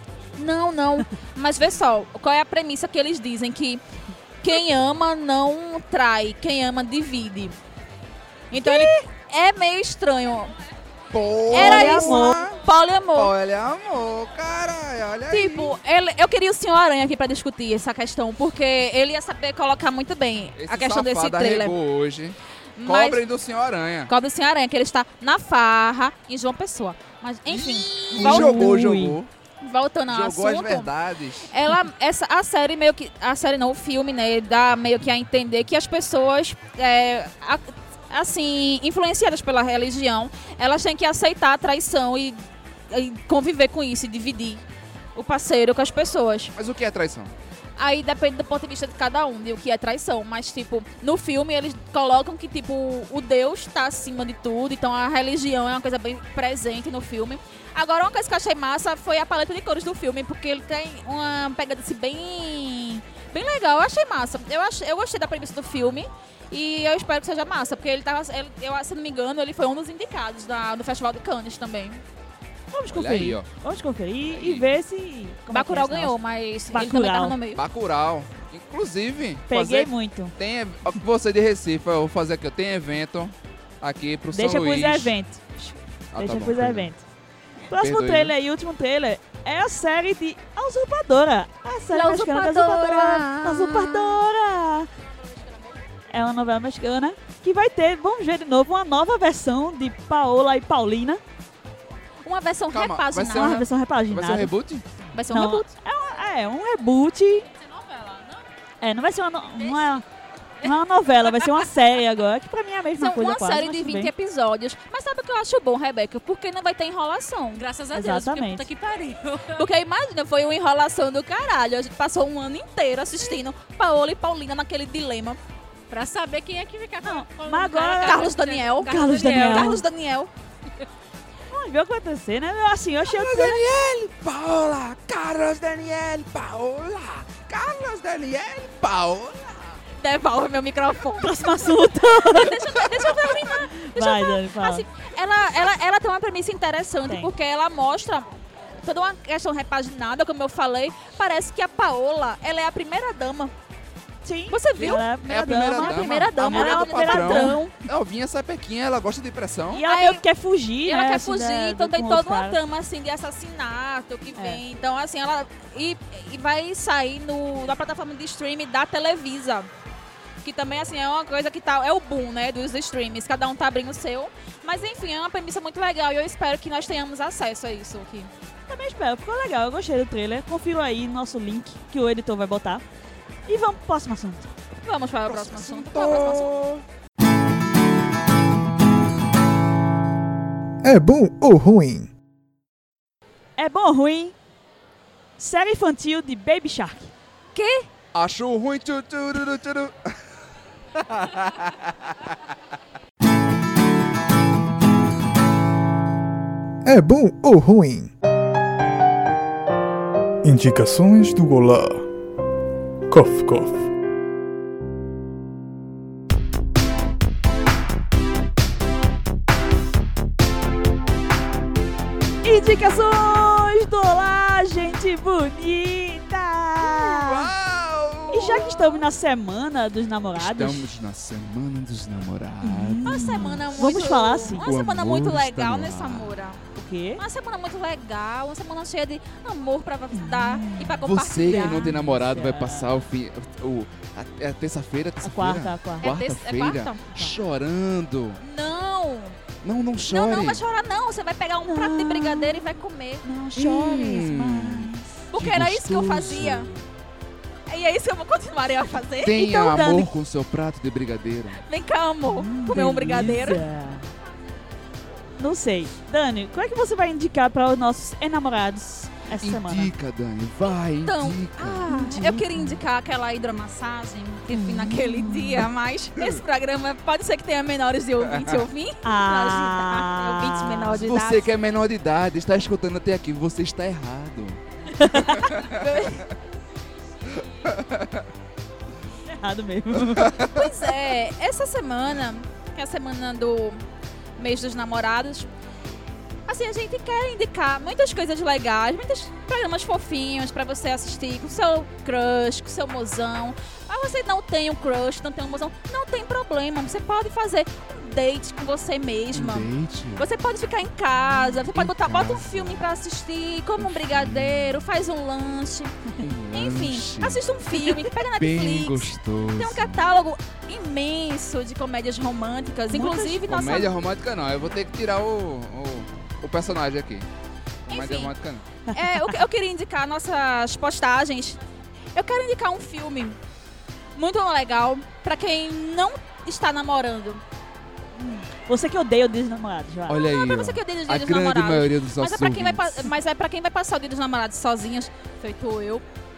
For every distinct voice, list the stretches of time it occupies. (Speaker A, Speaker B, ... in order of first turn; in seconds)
Speaker A: 0.4-3.8, 4.4-7.6, 8.5-10.5, 11.5-13.3, 15.3-21.8, 22.8-23.2, 24.1-28.8, 29.6-30.9, 31.5-42.4, 42.9-44.6, 45.2-46.5, 47.8-72.0, 75.5-77.6, 91.9-94.2, 102.2-103.7, 105.1-105.7, 113.0-117.7, 119.6-125.4, 128.0-130.3, 140.0-148.3, 148.8-153.5, 154.5-157.7, 159.8-160.2, 160.8-169.7, 170.4-178.3, 184.8-186.6, 197.6-197.9, 233.0-236.6, 237.2-241.9, 246.0-247.1, 248.4-249.4, 250.0-253.3, 255.3-256.7, 257.7-259.5, 261.6-263.7, 271.0-281.5, 285.4-286.3, 290.5-293.8, 294.4-295.5, 296.5-315.9, 316.5-323.9, 327.9-328.3, 328.9-331.6, 332.1-333.4, 334.2-337.4, 340.2-346.0
Speaker B: 8.6-8.9, 11.5-12.4, 28.1-29.2, 72.7-76.2, 76.7-77.4, 79.5-80.3, 84.3-87.0, 87.7-94.9, 96.1-101.2, 103.3-104.5, 105.3-107.5, 108.8-110.0, 110.6-114.1, 117.9-118.7, 127.0-129.8, 131.5-133.7, 141.2-144.8, 147.1-147.3, 154.2-157.7, 159.7-162.6, 164.4-164.6, 178.7-182.8, 183.5-184.5, 193.6-194.3, 195.4-197.1, 222.4-227.5, 228.3-230.9, 232.6-234.7, 236.8-237.2, 240.1-242.9, 245.2-246.1, 251.6-252.7, 253.2-255.1, 259.4-260.1, 262.3-264.1, 265.4-269.9, 271.9-272.8, 274.5-275.7, 279.0-281.0, 285.0-285.5, 289.3-290.5, 322.9-323.4, 328.9-329.4, 338.1-340.2
Speaker C: 11.1-12.6, 13.2-15.8, 20.6-24.1, 27.5-29.3, 30.1-31.5, 46.6-47.3, 72.9-73.5, 74.3-74.7, 77.5-85.1, 86.1-86.9, 87.7-88.3, 102.7-104.9, 133.1-139.8, 154.8-159.8, 185.3-186.8, 198.1-200.1, 201.0-201.9, 226.8-228.9, 230.4-233.6, 234.6-236.3, 241.0-248.4, 249.6-250.6, 253.6-256.8, 259.2-261.6, 269.4-271.9, 281.0-284.6, 285.3-285.8, 287.4-288.3, 290.1-290.7, 309.3-310.3, 311.6-312.9, 313.8-314.9, 316.2-317.4, 318.2-320.0, 323.5-327.3, 327.9-328.6, 340.1-343.1
Speaker D: 95.3-95.8, 107.5-108.5, 109.6-110.0, 111.3-111.6, 117.6-119.7, 125.9-129.8
Speaker E: 190.8-192.1, 206.8-208.1, 210.4-212.1, 213.1-213.9